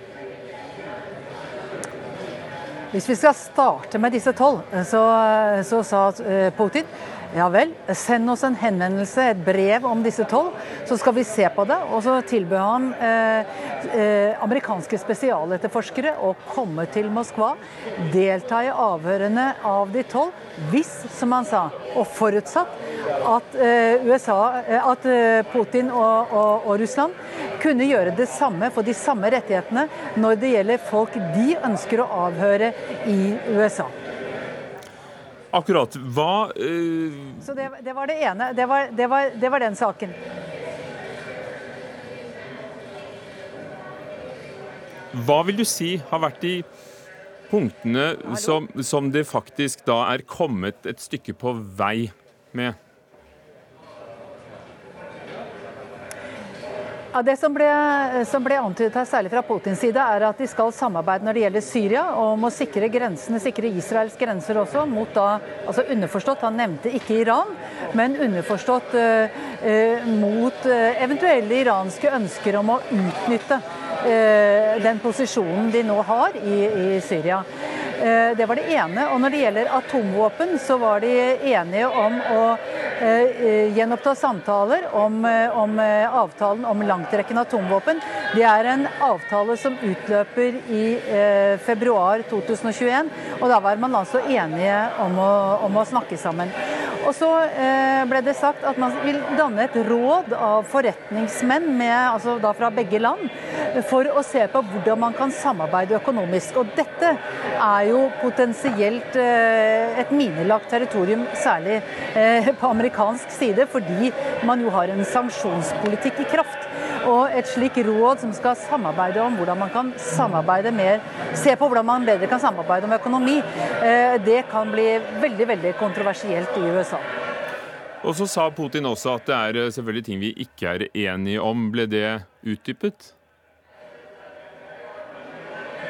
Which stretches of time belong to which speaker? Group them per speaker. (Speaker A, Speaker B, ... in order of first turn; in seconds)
Speaker A: 2.9-33.9, 37.4-40.1, 48.3-48.6, 57.1-77.5, 78.0-127.1
Speaker B: 35.5-37.4, 45.1-46.6, 47.5-52.8, 128.0-133.1